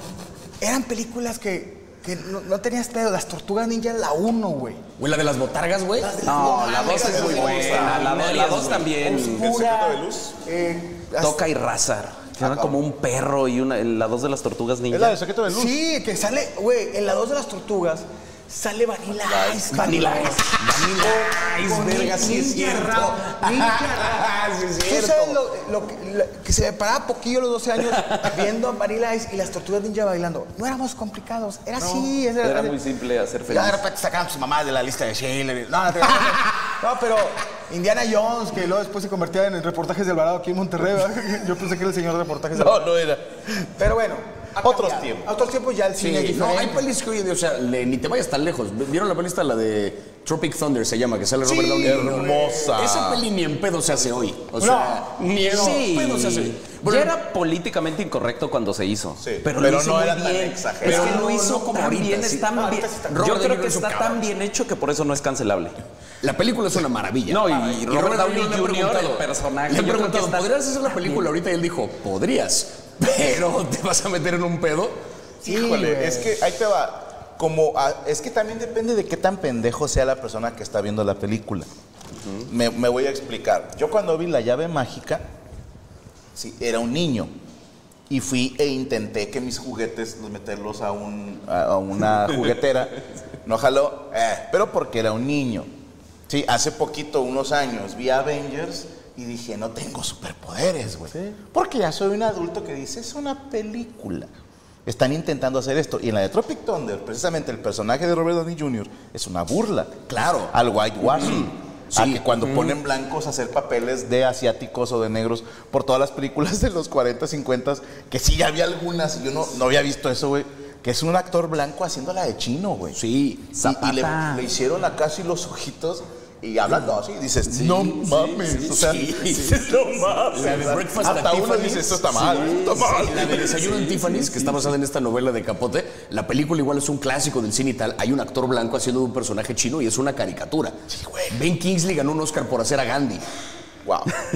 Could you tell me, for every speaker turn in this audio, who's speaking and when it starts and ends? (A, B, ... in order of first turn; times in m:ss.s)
0:00.6-0:04.8 A
0:05.0-0:06.2 B
0:06.0-0:08.3 A
0:06.2-0:09.5 C
0:06.4-0:08.1 D
0:06.8-0:08.9 B
0:08.8-0:10.4 D
0:09.1-0:11.4 A
0:11.2-0:15.2 C
0:12.4-0:12.8 D
0:14.9-0:15.8 D
0:15.5-0:32.8 A
0:19.2-0:19.9 D
0:19.7-0:25.4 B
0:19.8-0:20.4 C
0:31.8-0:33.8 C
0:33.5-0:42.9 A
0:42.5-0:43.3 D
0:43.5-0:46.8 A
0:44.6-0:45.3 D
0:46.0-0:57.1 B
0:51.4-0:52.8 A
0:51.8-0:53.3 D
0:54.6-0:55.1 A
0:55.4-1:05.8 C
0:59.2-1:01.2 D
1:00.8-1:04.3 B
1:02.5-1:03.3 A
1:06.2-1:15.0 B
1:07.3-1:10.5 C
1:15.4-1:16.4 A
1:15.4-1:21.7 D
1:22.4-1:25.2 D
1:26.3-1:27.3 D
1:28.1-1:35.7 D
1:36.3-1:44.3 D
1:41.1-1:41.4 A
1:44.8-2:03.0 D
1:50.1-1:50.5 B
1:51.1-1:52.7 B
2:02.9-2:04.1 B
2:03.6-2:13.6 D
2:03.6-2:04.3 C
2:07.6-2:09.8 B
2:10.3-2:23.2 B
2:12.3-2:14.5 C
2:20.9-2:21.4 D
2:23.8-2:24.1 D